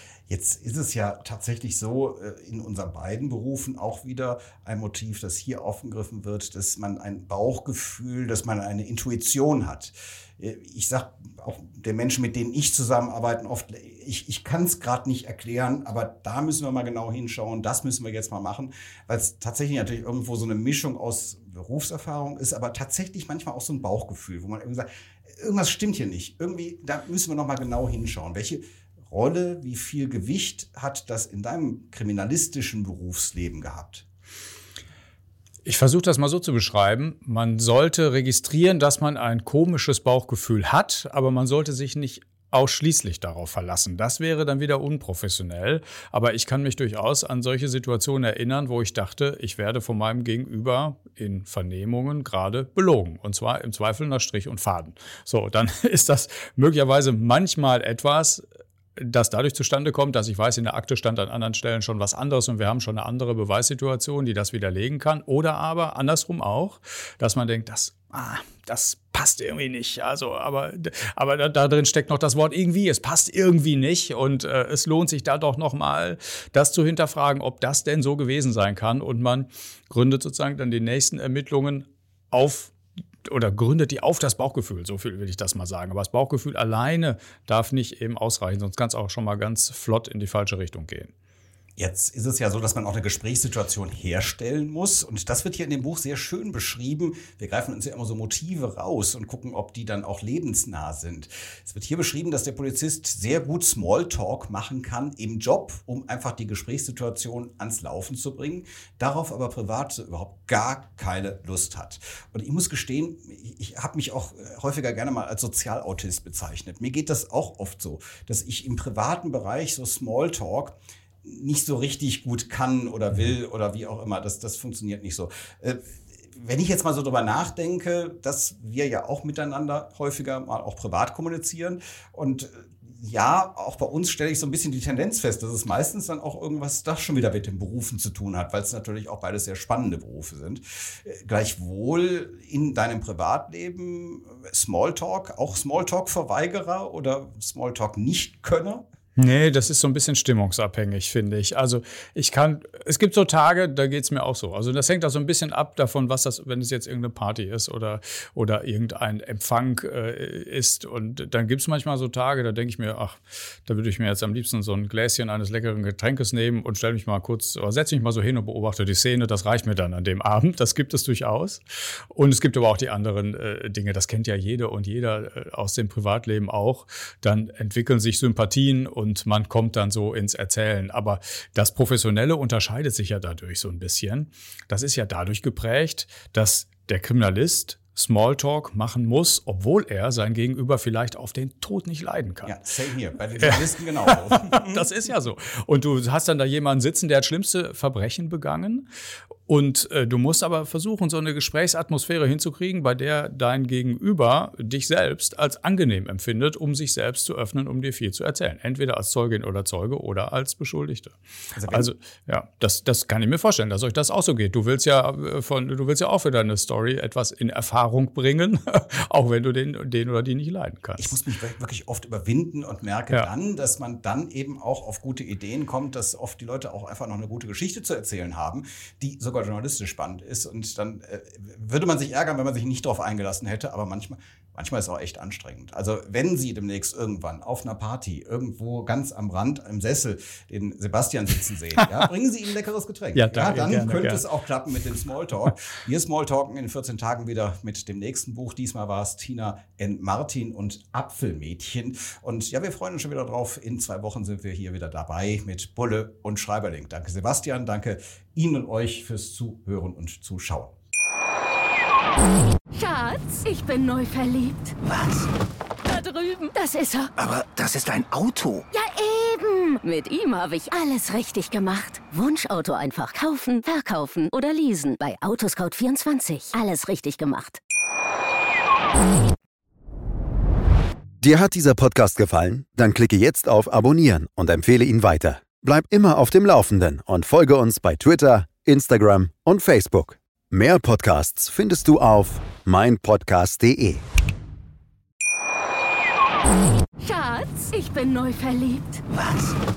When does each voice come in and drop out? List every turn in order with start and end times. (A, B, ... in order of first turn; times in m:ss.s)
0:00.3-0:34.0 A
0:35.6-0:58.4 B
0:59.0-1:22.7 B
1:23.2-1:31.1 B
1:31.8-2:05.8 A
2:06.4-2:28.8 A
2:29.2-2:51.6 B
2:52.1-3:12.6 B
3:12.4-3:14.8 A
3:13.4-3:18.9 B
3:19.5-3:41.2 B
3:31.5-3:31.9 A
3:41.0-4:20.7 A
4:03.1-4:04.2 B
4:22.7-4:24.8 C
4:24.8-4:25.3 D
4:25.8-4:27.1 C
4:27.2-4:28.6 D
4:28.7-4:37.6 C
4:41.2-4:54.0 E
4:57.0-4:59.0 C
4:59.1-4:59.6 D